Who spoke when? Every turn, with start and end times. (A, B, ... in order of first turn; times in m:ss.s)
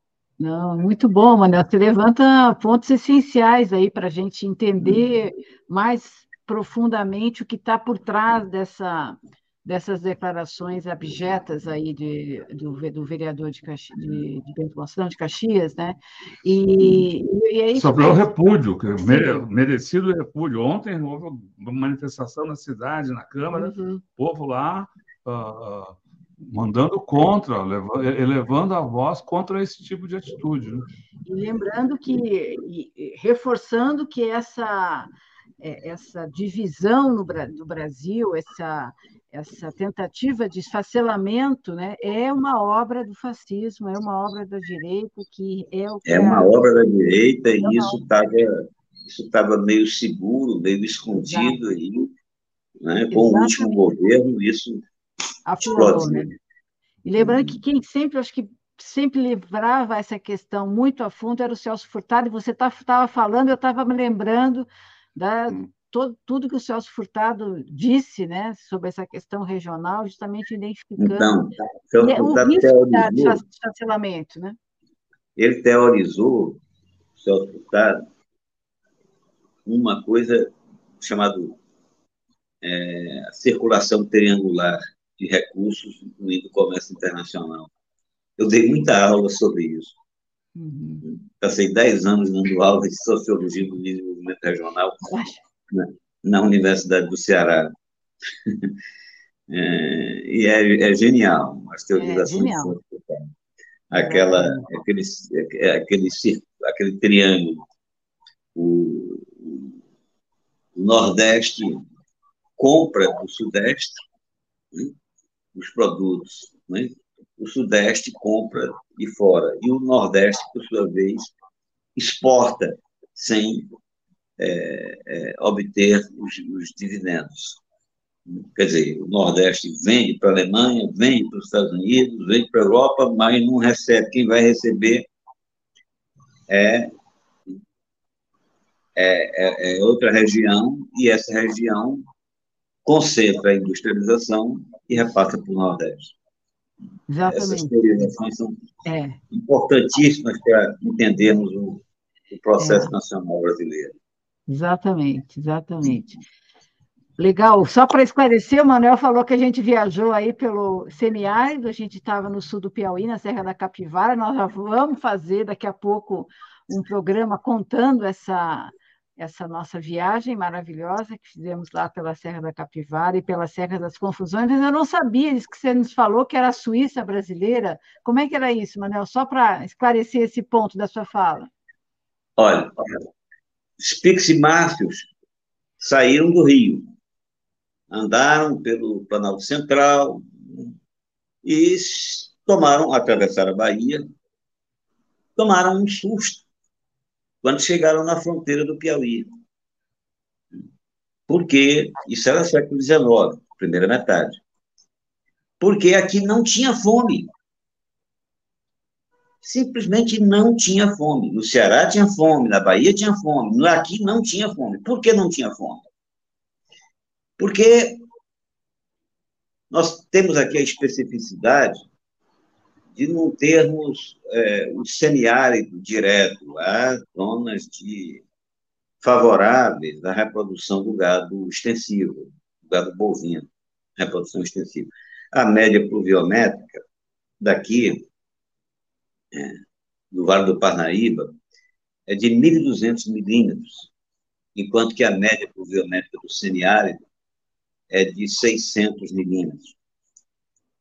0:00.4-0:18.3 A
0:16.8-0:17.0 B
0:17.7-0:30.8 B
0:18.9-0:19.5 A
0:23.5-0:24.0 A
0:31.2-0:46.5 A
0:46.0-0:52.1 C
0:47.6-0:48.0 A
0:51.1-0:51.6 A
0:52.8-0:54.8 C
0:53.1-0:53.8 A
0:55.4-0:56.3 A
0:55.7-0:56.3 C
0:57.0-1:11.3 A
0:57.2-0:57.6 C
1:11.0-1:13.4 C
1:12.0-1:14.6 A
1:15.4-1:16.6 C
1:17.2-1:18.0 C
1:19.6-1:21.6 C
1:22.6-1:27.7 C
1:28.4-1:30.0 C
1:30.6-1:31.0 A
1:31.0-1:35.0 C
1:35.1-1:35.4 A
1:35.7-1:37.7 C
1:39.5-1:43.3 C
1:41.9-1:42.7 A
1:43.9-1:47.6 C
1:43.9-1:44.7 A
1:48.5-1:49.7 C
1:50.7-1:51.8 C
1:52.6-1:54.0 C
1:55.5-2:01.3 C
2:02.0-2:03.7 C
2:04.4-2:07.6 C
2:08.3-2:15.1 C
2:16.5-2:16.9 C
2:19.0-2:22.0 C
2:22.8-2:26.1 C
2:27.1-2:27.7 A
2:27.2-2:28.6 C
2:28.8-2:29.2 A
2:29.3-2:33.9 C
2:32.6-2:32.9 A
2:34.5-2:36.2 A
2:37.2-3:01.5 A
3:02.4-3:03.0 C
3:03.8-3:05.1 C
3:05.8-3:06.8 C
3:07.9-3:10.7 C
3:11.4-3:14.0 C
3:15.4-3:16.4 C
3:17.4-3:19.2 C
3:21.3-3:24.4 C
3:25.6-3:27.3 C
3:29.4-3:35.8 C
3:37.4-3:38.0 C
3:39.7-3:41.8 C
3:42.9-3:48.2 C
3:49.0-3:56.8 C
3:57.4-3:58.0 C
3:59.3-3:59.6 C
4:00.1-4:01.4 C
4:02.1-4:03.9 C
4:04.5-4:07.0 C
4:07.9-4:09.7 C